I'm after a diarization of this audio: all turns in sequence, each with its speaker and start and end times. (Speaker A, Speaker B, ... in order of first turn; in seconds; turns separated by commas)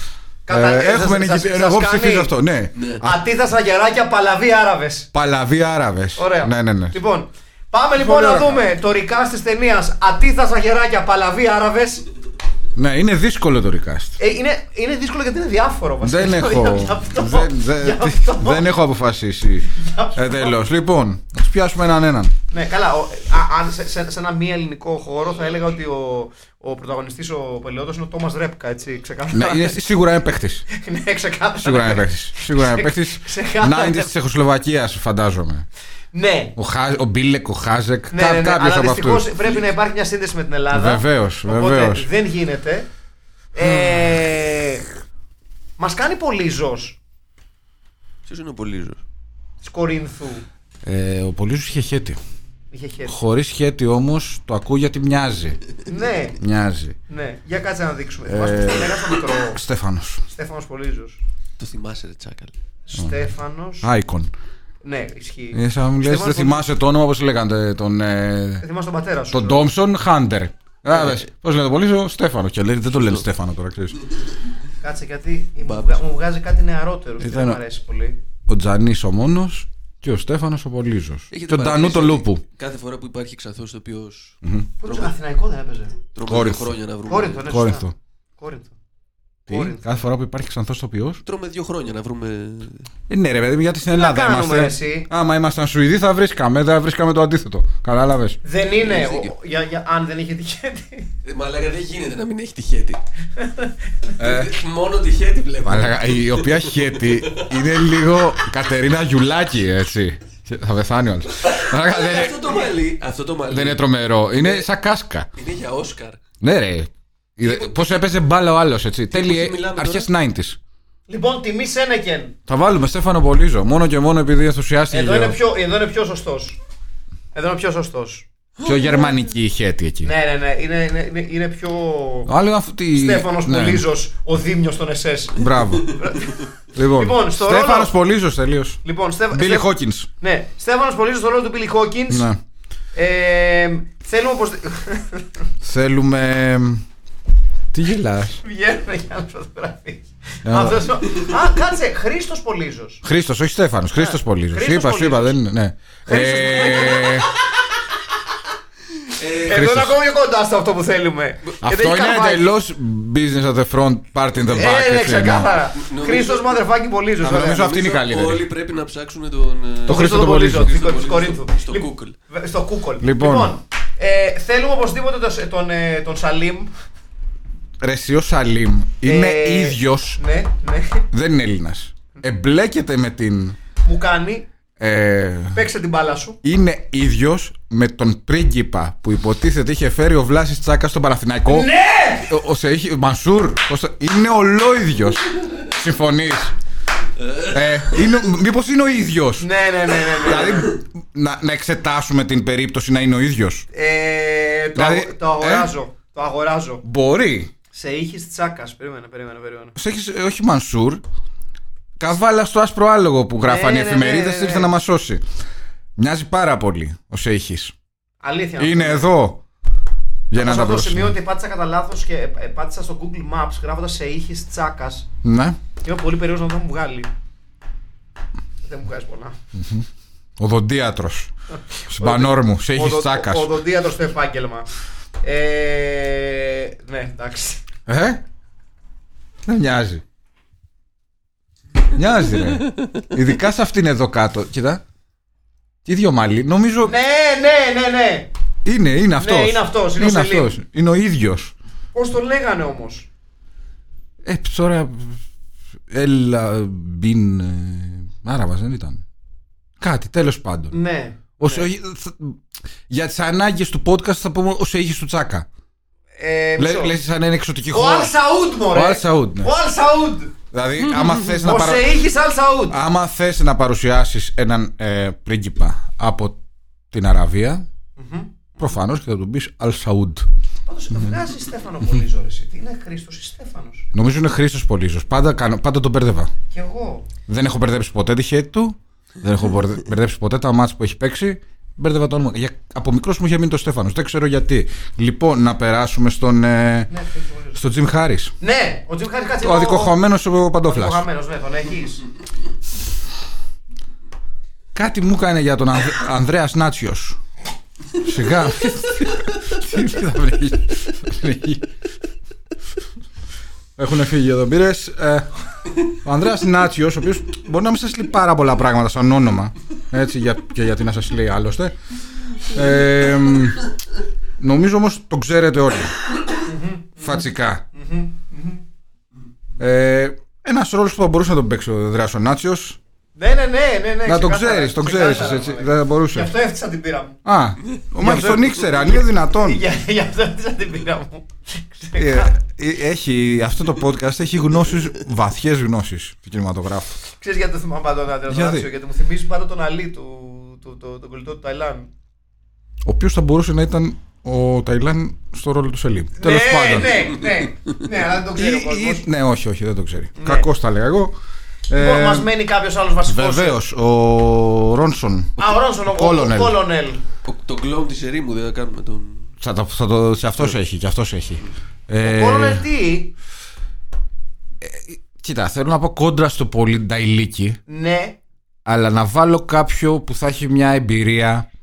Speaker A: 0.5-2.3, Speaker B: 0.5-3.2, Speaker C: 2.8-3.0, Speaker A: 3.0-5.1, Speaker B: 5.1-6.9, Speaker A: 6.2-12.1, Speaker B: 8.0-8.6, Speaker B: 12.8-14.2, Speaker A: 14.2-18.7, Speaker B: 16.0-22.3, Speaker A: 19.7-20.6, Speaker A: 22.5-29.8, Speaker B: 29.3-30.6, Speaker A: 30.7-34.1, Speaker B: 31.6-35.6, Speaker A: 36.1-36.5, Speaker B: 36.5-39.3, Speaker A: 38.1-42.9, Speaker B: 40.7-42.1, Speaker A: 43.5-44.8, Speaker A: 45.8-47.0, Speaker C: 48.2-49.0, Speaker A: 49.6-50.4, Speaker B: 50.8-52.2, Speaker A: 52.7-53.2, Speaker B: 53.1-55.6, Speaker A: 55.9-56.4, Speaker B: 56.4-57.0, Speaker A: 57.1-59.6, Speaker B: 58.3-60.2, Speaker A: 60.3-61.2, Speaker C: 61.6-62.5, Speaker A: 62.9-63.9, Speaker B: 63.8-64.3, Speaker A: 64.8-66.7, Speaker B: 65.5-68.6, Speaker A: 68.6-69.6, Speaker B: 69.3-74.0, Speaker C: 70.9-71.2, Speaker C: 72.9-73.2, Speaker A: 74.8-78.2, Speaker C: 75.7-76.0, Speaker B: 77.2-77.6, Speaker B: 78.5-82.4, Speaker C: 81.3-85.1, Speaker B: 84.4-84.7, Speaker A: 84.8-86.0, Speaker C: 86.1-87.4, Speaker B: 86.2-86.7, Speaker A: 87.1-88.7, Speaker B: 87.5-87.9, Speaker B: 89.5-91.2, Speaker A: 89.5-90.0, Speaker C: 91.2-92.9, Speaker B: 93.1-98.4, Speaker A: 93.9-95.1, Speaker A: 98.4-101.1, Speaker C: 98.8-99.3, Speaker C: 101.2-103.0, Speaker A: 103.4-103.7, Speaker C: 104.2-107.7, Speaker B: 104.2-104.5, Speaker B: 105.6-112.5, Speaker C: 111.4-113.8, Speaker B: 113.5-115.3, Speaker C: 114.3-114.7, Speaker C: 115.4-116.2, Speaker B: 116.4-120.6, Speaker C: 119.1-120.1, Speaker A: 121.1-122.4, Speaker B: 122.5-125.4, Speaker A: 124.9-126.6, Speaker A: 127.3-128.2, Speaker B: 128.6-130.1, Speaker A: 130.0-132.3, Speaker B: 132.3-133.8, Speaker A: 132.9-137.9, Speaker B: 135.3-136.0, Speaker B: 136.7-138.8, Speaker A: 138.8-142.3, Speaker B: 139.3-140.1, Speaker B: 142.1-142.4, Speaker A: 142.9-145.3, Speaker B: 145.6-146.8, Speaker B: 147.7-148.4, Speaker A: 148.4-153.0, Speaker B: 150.4-150.9, Speaker B: 153.0-157.3, Speaker A: 153.9-155.4, Speaker A: 156.1-157.3, Speaker C: 159.2-159.7, Speaker A: 159.4-162.4, Speaker B: 159.4-160.0, Speaker B: 161.6-165.5, Speaker A: 164.5-167.8, Speaker C: 165.8-166.6, Speaker B: 167.2-168.5, Speaker C: 167.5-172.1, Speaker B: 169.9-170.8, Speaker A: 169.9-176.7, Speaker B: 173.0-173.5, Speaker B: 177.8-180.2, Speaker A: 179.0-181.1, Speaker B: 181.1-183.6, Speaker A: 183.8-184.5, Speaker B: 184.8-185.7, Speaker A: 185.5-186.4, Speaker B: 186.4-191.7, Speaker A: 191.5-192.3, Speaker B: 192.2-196.5, Speaker C: 197.2-197.5, Speaker B: 197.5-199.5, Speaker A: 199.4-200.7, Speaker B: 200.1-203.7, Speaker A: 203.7-206.8, Speaker B: 204.7-205.7, Speaker B: 206.8-207.5, Speaker A: 207.7-209.7, Speaker B: 209.8-211.0, Speaker B: 212.0-215.2, Speaker A: 213.4-214.7, Speaker B: 216.0-217.7, Speaker A: 218.2-219.1, Speaker B: 218.6-219.4, Speaker B: 220.3-221.1, Speaker A: 220.3-225.1, Speaker B: 225.2-225.6, Speaker A: 225.8-227.1, Speaker A: 228.6-229.3, Speaker B: 229.5-229.8, Speaker B: 230.4-231.3, Speaker A: 231.6-234.7, Speaker B: 231.9-233.5, Speaker A: 235.2-237.6, Speaker B: 237.9-238.2, Speaker B: 239.4-240.0, Speaker B: 241.9-244.8, Speaker B: 245.8-246.9, Speaker A: 246.8-248.3, Speaker B: 248.6-251.5, Speaker A: 249.2-250.6, Speaker A: 251.9-253.1, Speaker B: 254.2-255.2, Speaker B: 255.9-259.0, Speaker B: 259.8-260.8, Speaker A: 260.7-261.7, Speaker B: 261.4-265.5, Speaker A: 266.2-266.9, Speaker B: 266.6-268.1, Speaker A: 267.7-270.3, Speaker B: 268.7-269.5, Speaker B: 270.5-271.9, Speaker A: 271.2-272.8, Speaker B: 272.7-276.4, Speaker B: 276.9-277.6, Speaker A: 278.0-278.3, Speaker B: 278.6-280.3, Speaker A: 280.6-283.9, Speaker B: 283.9-286.3, Speaker A: 286.5-287.1, Speaker B: 287.3-296.9, Speaker A: 296.9-297.6, Speaker B: 297.5-298.3, Speaker A: 298.4-300.0, Speaker B: 299.4-301.0, Speaker A: 300.6-302.0, Speaker B: 304.7-307.2, Speaker B: 308.0-311.7, Speaker B: 313.8-315.3, Speaker B: 315.8-321.7, Speaker B: 322.4-323.6, Speaker B: 324.4-326.0, Speaker A: 326.4-328.6, Speaker B: 327.0-327.6, Speaker B: 329.6-332.8, Speaker A: 333.1-337.2, Speaker B: 334.0-336.3, Speaker B: 337.2-339.6, Speaker A: 338.0-342.4, Speaker B: 342.0-347.0, Speaker A: 347.1-351.9, Speaker B: 348.3-348.7, Speaker B: 352.8-357.2, Speaker A: 356.2-359.1, Speaker B: 358.3-361.1, Speaker A: 360.2-360.5, Speaker B: 361.7-362.3, Speaker A: 361.7-363.6, Speaker B: 363.1-366.6, Speaker A: 365.4-367.0, Speaker C: 367.2-369.3, Speaker B: 369.4-372.6, Speaker A: 372.0-373.1, Speaker B: 374.6-377.6, Speaker A: 377.7-378.2, Speaker B: 378.6-381.5